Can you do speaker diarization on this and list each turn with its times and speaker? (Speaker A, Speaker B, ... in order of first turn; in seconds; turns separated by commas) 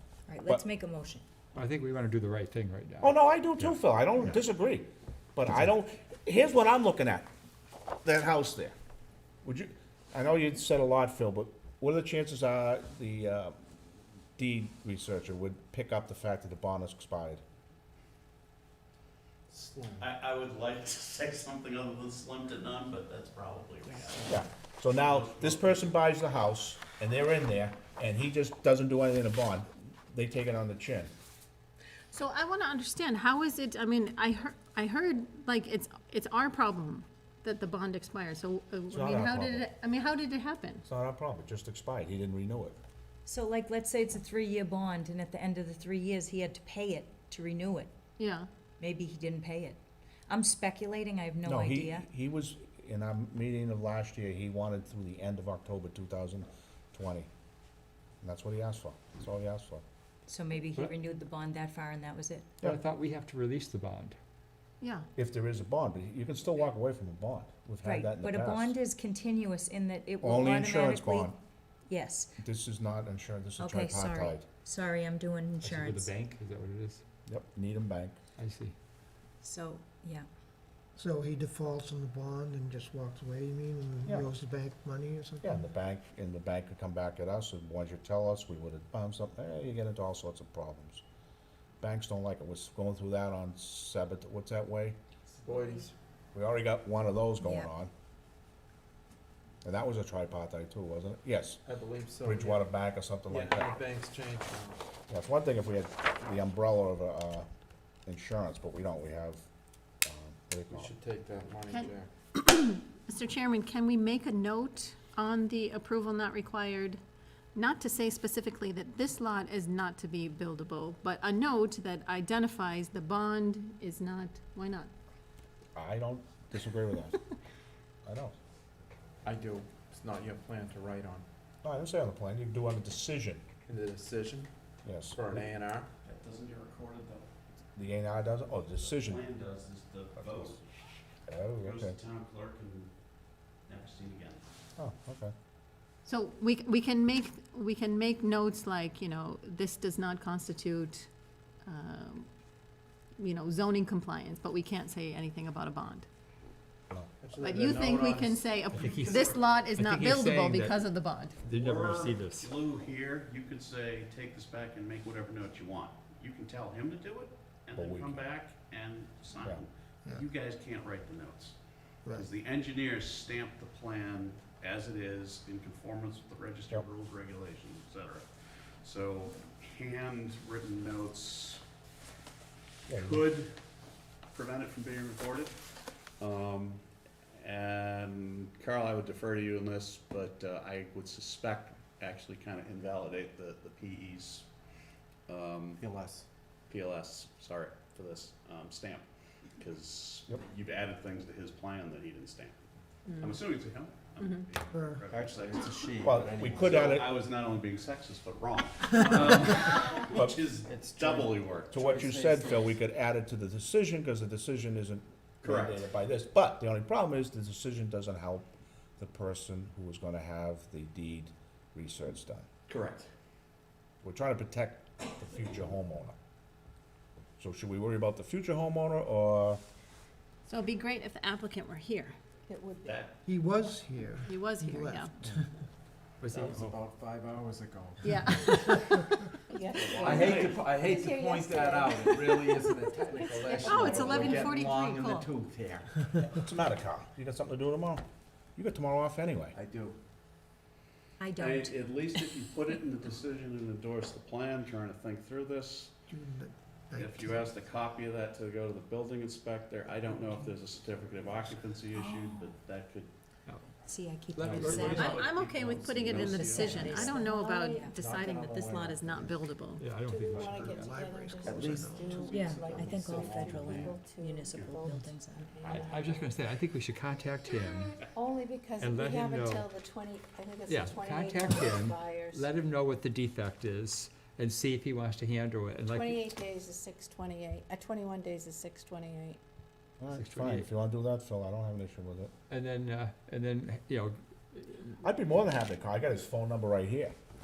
Speaker A: 0.3-1.2, Speaker B: 1.6-3.1, Speaker C: 3.0-7.3, Speaker C: 8.0-8.7, Speaker C: 9.4-13.6, Speaker C: 14.4-17.4, Speaker D: 19.5-20.1, Speaker E: 20.0-24.3, Speaker D: 23.9-24.2, Speaker C: 24.3-31.1, Speaker E: 25.0-25.7, Speaker F: 32.1-40.8, Speaker C: 38.9-39.7, Speaker C: 40.9-42.8, Speaker A: 43.3-47.9, Speaker F: 48.2-48.5, Speaker A: 48.8-52.1, Speaker C: 51.4-57.3, Speaker C: 58.2-59.8, Speaker A: 60.3-62.5, Speaker B: 62.6-64.2, Speaker F: 64.8-65.1, Speaker C: 65.2-68.8, Speaker A: 67.8-71.3, Speaker C: 70.2-71.3, Speaker A: 71.9-72.3, Speaker C: 72.4-74.5, Speaker A: 73.6-76.2, Speaker B: 75.6-77.0, Speaker C: 77.3-78.2, Speaker B: 78.4-78.7, Speaker A: 79.4-80.3, Speaker G: 81.0-85.6, Speaker C: 85.4-91.0, Speaker C: 91.8-95.0, Speaker D: 95.4-95.9, Speaker C: 96.3-97.9, Speaker A: 97.4-97.7, Speaker C: 99.6-101.6, Speaker D: 101.7-102.7, Speaker C: 102.2-103.7, Speaker D: 103.3-104.8, Speaker C: 105.1-107.5, Speaker C: 108.1-109.5, Speaker C: 110.0-110.9, Speaker D: 110.7-112.1, Speaker F: 111.7-117.0, Speaker F: 117.5-124.9, Speaker C: 125.8-127.2, Speaker C: 128.1-128.3, Speaker D: 129.2-131.3, Speaker C: 131.6-133.4, Speaker D: 133.7-134.5, Speaker C: 134.8-135.4, Speaker D: 135.1-135.9, Speaker E: 136.1-137.3, Speaker C: 137.8-139.2, Speaker E: 138.8-140.6, Speaker C: 140.2-140.6, Speaker C: 141.3-142.0, Speaker E: 141.6-142.9, Speaker E: 143.7-144.4, Speaker C: 144.8-145.3, Speaker F: 146.1-151.1, Speaker F: 151.7-152.3, Speaker F: 153.2-156.1, Speaker D: 157.2-159.0, Speaker F: 157.4-161.4, Speaker E: 158.7-159.5, Speaker B: 158.8-159.2, Speaker B: 159.8-160.7, Speaker B: 161.4-162.5, Speaker E: 161.6-171.6, Speaker C: 167.8-168.2, Speaker E: 172.2-178.3, Speaker E: 178.8-181.6, Speaker C: 182.9-183.3, Speaker E: 182.9-183.5, Speaker E: 184.3-185.5, Speaker E: 186.2-186.8, Speaker E: 187.4-194.5, Speaker E: 195.3-195.8, Speaker D: 195.8-196.3, Speaker E: 196.7-199.0, Speaker E: 199.6-202.6, Speaker F: 203.1-203.4, Speaker E: 203.2-205.7, Speaker G: 204.7-205.0, Speaker D: 205.1-207.0, Speaker C: 206.0-207.2, Speaker E: 206.2-211.8, Speaker C: 210.1-210.4, Speaker D: 210.7-212.8, Speaker C: 211.7-222.5, Speaker E: 215.4-215.8, Speaker E: 222.7-223.1, Speaker C: 224.0-226.2, Speaker C: 227.4-229.6, Speaker F: 230.5-232.2, Speaker E: 232.7-233.1, Speaker G: 233.2-235.5, Speaker F: 234.3-235.1, Speaker B: 236.2-236.8, Speaker D: 236.3-238.6, Speaker F: 238.0-239.1, Speaker E: 239.6-243.9, Speaker D: 239.8-245.9, Speaker F: 243.6-245.3, Speaker C: 246.3-248.0, Speaker C: 248.6-249.6, Speaker D: 249.5-250.0, Speaker A: 251.2-251.8, Speaker E: 251.4-255.9, Speaker G: 256.1-257.6, Speaker E: 257.0-263.1, Speaker A: 261.9-262.5, Speaker B: 263.5-263.8, Speaker A: 263.8-265.0, Speaker B: 264.4-265.2, Speaker D: 264.4-265.2, Speaker E: 264.5-267.9, Speaker F: 264.6-269.9, Speaker D: 266.0-267.2, Speaker A: 266.6-268.0, Speaker D: 268.0-269.4, Speaker B: 269.8-270.9, Speaker E: 270.1-275.8, Speaker D: 270.4-270.7, Speaker G: 270.5-272.5, Speaker D: 271.4-274.0, Speaker A: 272.4-275.4, Speaker B: 272.4-273.2, Speaker B: 273.7-274.5, Speaker B: 275.4-278.0, Speaker E: 278.2-278.8, Speaker B: 278.8-279.7, Speaker E: 279.9-280.6, Speaker B: 280.7-286.3, Speaker H: 285.9-289.4, Speaker C: 290.0-292.3, Speaker B: 290.1-290.7, Speaker B: 292.5-294.9, Speaker C: 295.0-297.1